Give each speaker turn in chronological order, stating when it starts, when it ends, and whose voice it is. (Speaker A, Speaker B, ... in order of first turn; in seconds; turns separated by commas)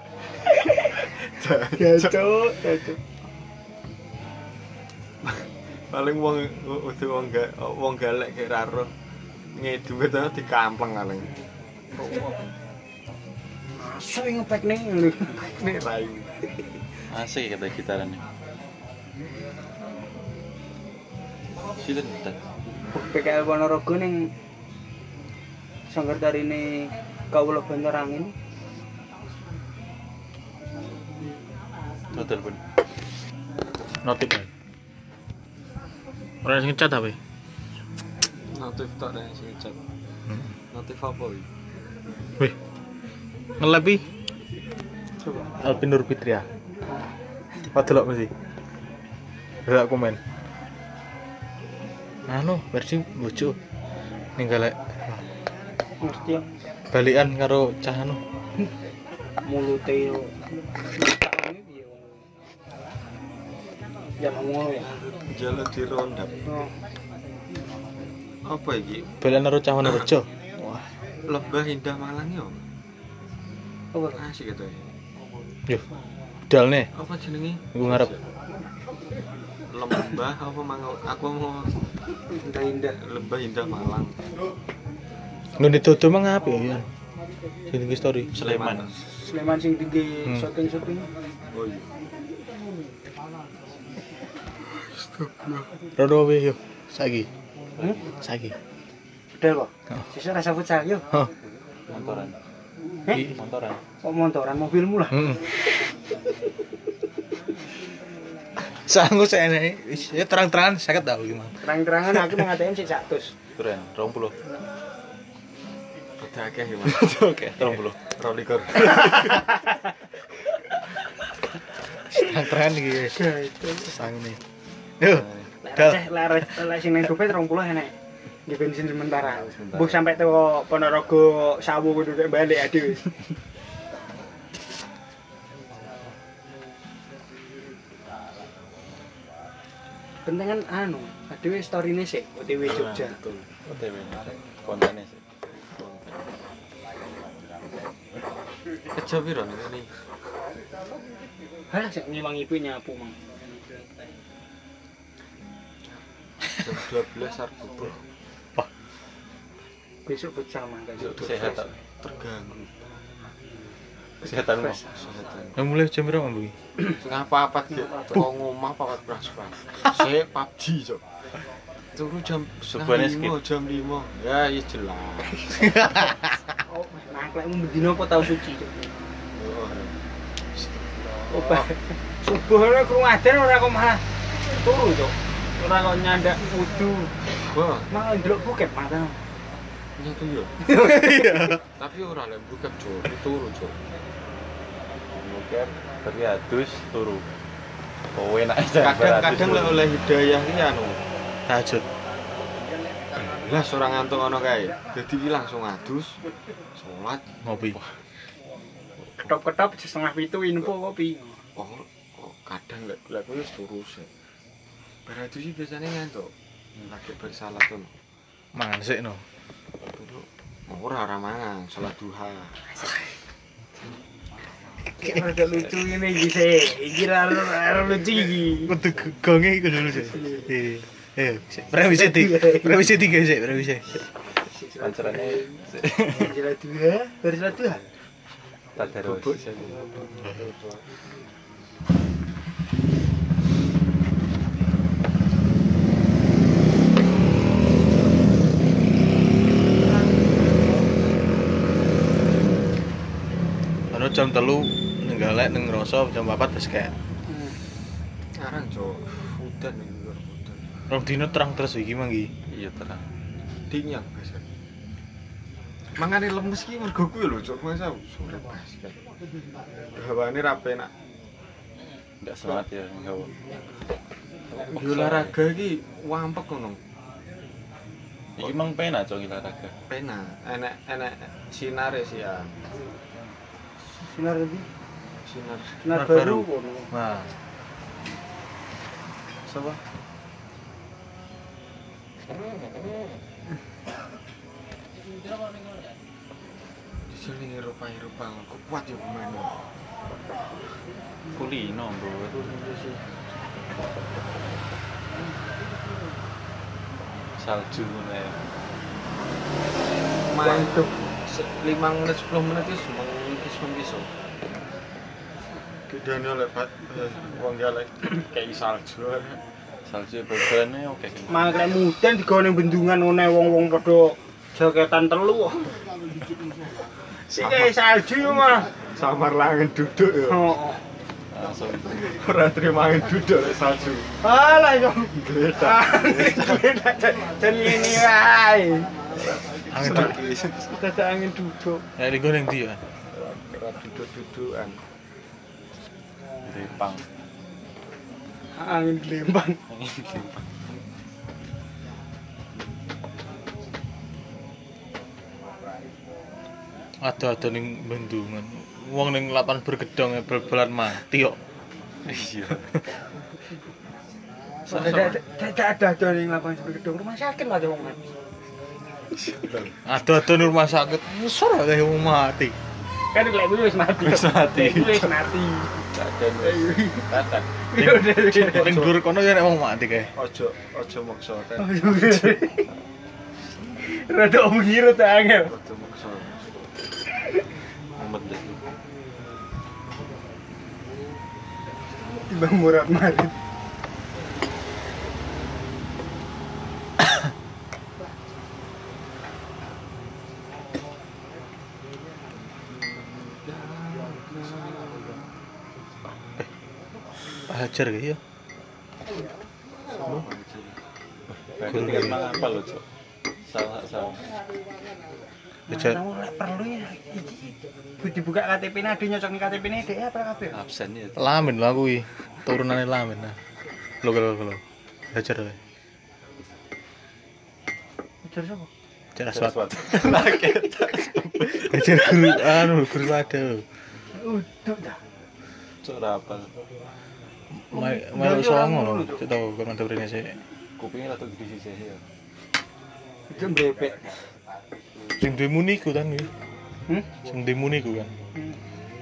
Speaker A: 0.6-0.9, Speaker B: 1.1-2.1, Speaker A: 1.7-3.0, Speaker B: 5.2-8.9, Speaker B: 9.5-11.3, Speaker B: 11.9-12.3, Speaker A: 13.8-15.5, Speaker B: 15.4-16.3, Speaker C: 17.1-18.2, Speaker C: 21.8-22.4, Speaker A: 22.9-24.3, Speaker A: 25.9-28.3, Speaker C: 32.1-32.6, Speaker D: 34.0-34.5, Speaker D: 36.4-37.2, Speaker B: 38.5-39.8, Speaker B: 40.7-41.5, Speaker D: 43.6-44.0, Speaker A: 45.2-45.5, Speaker D: 45.6-46.5, Speaker D: 47.7-48.3, Speaker D: 49.6-50.2, Speaker D: 52.3-53.6, Speaker D: 54.4-55.2, Speaker A: 56.0-56.4, Speaker D: 56.9-58.2, Speaker A: 59.5-62.2, Speaker A: 64.2-65.0, Speaker B: 65.3-66.3, Speaker A: 66.5-66.7, Speaker B: 68.4-69.1, Speaker D: 69.2-70.9, Speaker B: 71.3-72.6, Speaker A: 73.9-74.2, Speaker B: 74.1-74.9, Speaker D: 76.5-76.9, Speaker B: 76.9-78.2, Speaker D: 77.7-78.1, Speaker B: 79.7-81.7, Speaker A: 82.3-83.0, Speaker B: 83.0-84.1, Speaker D: 85.6-86.9, Speaker D: 87.7-88.3, Speaker C: 88.3-88.9, Speaker B: 88.4-89.0, Speaker A: 89.0-91.1, Speaker B: 91.5-91.9, Speaker B: 94.8-95.7, Speaker D: 96.0-97.3, Speaker C: 97.8-98.1, Speaker D: 98.2-98.5, Speaker A: 99.4-101.1, Speaker C: 101.9-102.3, Speaker C: 103.2-103.8, Speaker A: 104.0-105.5, Speaker D: 105.1-105.4, Speaker D: 108.6-111.6, Speaker A: 111.6-113.3, Speaker D: 112.1-112.4, Speaker C: 113.6-114.3, Speaker B: 116.2-117.2, Speaker C: 116.9-118.1, Speaker B: 118.1-119.3, Speaker D: 122.1-123.2, Speaker A: 123.1-124.0, Speaker D: 123.8-124.4, Speaker D: 125.0-126.0, Speaker B: 125.1-125.4, Speaker A: 125.6-127.9, Speaker A: 128.5-133.1, Speaker B: 129.5-130.0, Speaker A: 140.2-143.2, Speaker B: 142.6-143.5, Speaker C: 143.6-145.2, Speaker B: 145.8-146.1, Speaker B: 148.9-149.9, Speaker A: 151.7-153.1, Speaker B: 156.5-158.0, Speaker A: 160.1-161.6, Speaker C: 161.0-161.7, Speaker B: 161.4-162.7, Speaker A: 164.2-164.8, Speaker C: 164.2-164.8, Speaker B: 164.9-165.6, Speaker D: 165.6-166.5, Speaker B: 167.0-171.0, Speaker B: 171.9-175.7, Speaker C: 172.7-173.4, Speaker D: 175.6-176.1, Speaker A: 176.7-178.9, Speaker B: 179.3-179.9, Speaker B: 180.5-181.7, Speaker A: 181.3-184.0, Speaker A: 184.6-187.1, Speaker B: 187.4-187.9, Speaker A: 187.9-189.2, Speaker B: 190.0-190.7, Speaker A: 190.6-191.6, Speaker D: 190.8-191.6, Speaker B: 191.7-193.8, Speaker C: 195.2-197.2, Speaker C: 198.1-199.9, Speaker B: 198.8-201.0, Speaker D: 201.5-201.8, Speaker B: 203.2-206.2, Speaker B: 206.7-207.2, Speaker D: 207.4-207.8, Speaker A: 209.2-211.4, Speaker B: 211.6-214.1, Speaker B: 215.1-217.9, Speaker D: 218.5-219.2, Speaker B: 219.9-222.6, Speaker A: 224.9-228.7, Speaker D: 228.7-234.0, Speaker A: 230.1-230.5, Speaker A: 231.8-232.8, Speaker A: 234.5-237.8, Speaker C: 234.8-236.3, Speaker C: 238.8-239.4, Speaker B: 239.0-240.8, Speaker D: 253.9-256.9, Speaker A: 257.3-257.6, Speaker B: 258.4-260.7, Speaker D: 260.9-262.3, Speaker C: 262.5-263.1, Speaker B: 263.7-264.5, Speaker B: 265.9-269.0, Speaker B: 269.9-270.9, Speaker C: 272.2-273.3, Speaker C: 274.5-275.3, Speaker B: 274.6-276.8, Speaker C: 278.4-279.7, Speaker B: 279.9-282.6, Speaker A: 284.0-284.7, Speaker B: 285.2-285.8, Speaker A: 285.8-286.9, Speaker D: 285.9-287.3, Speaker B: 297.1-299.6, Speaker C: 301.3-302.5, Speaker B: 302.4-303.0, Speaker C: 307.4-308.4, Speaker B: 310.3-314.1, Speaker A: 310.4-310.9, Speaker B: 315.9-319.4, Speaker C: 319.9-321.5, Speaker A: 321.3-325.7, Speaker B: 327.3-327.7, Speaker A: 327.3-328.7, Speaker B: 328.7-330.4, Speaker A: 330.3-330.8, Speaker C: 331.3-332.1, Speaker B: 332.0-334.1, Speaker A: 334.2-338.9, Speaker B: 335.1-335.9, Speaker C: 336.3-336.5, Speaker B: 339.6-340.7, Speaker D: 339.7-340.2, Speaker C: 339.8-340.3, Speaker A: 340.7-341.8, Speaker D: 342.0-342.8, Speaker B: 343.1-344.8, Speaker C: 346.4-347.0, Speaker A: 348.6-349.6, Speaker C: 349.7-350.4, Speaker D: 357.0-361.4, Speaker C: 362.0-362.6, Speaker A: 364.7-368.0, Speaker B: 364.7-365.1, Speaker B: 369.1-369.8, Speaker D: 369.8-372.5, Speaker A: 373.1-375.8, Speaker C: 374.0-375.1, Speaker B: 375.9-377.6, Speaker A: 376.4-377.1, Speaker A: 377.7-378.7, Speaker D: 377.8-380.1, Speaker B: 378.5-378.9, Speaker B: 380.1-382.2, Speaker A: 381.6-382.6, Speaker A: 383.9-385.5, Speaker B: 385.4-386.6, Speaker C: 388.0-388.6, Speaker A: 392.2-393.3, Speaker B: 403.1-405.1, Speaker D: 407.5-408.2, Speaker B: 410.0-410.7, Speaker C: 411.5-412.8, Speaker D: 411.7-412.2, Speaker C: 413.4-414.3, Speaker A: 415.7-420.6, Speaker D: 415.7-416.0, Speaker C: 420.5-421.4, Speaker D: 421.2-423.4, Speaker D: 424.0-425.6, Speaker A: 428.2-428.7, Speaker D: 429.1-430.3, Speaker C: 429.3-432.5, Speaker D: 431.5-433.6, Speaker A: 434.1-435.0, Speaker C: 435.8-436.5, Speaker D: 437.7-440.4, Speaker A: 437.7-439.2, Speaker C: 440.8-442.0, Speaker A: 443.3-444.1, Speaker D: 445.2-446.3, Speaker D: 447.3-448.1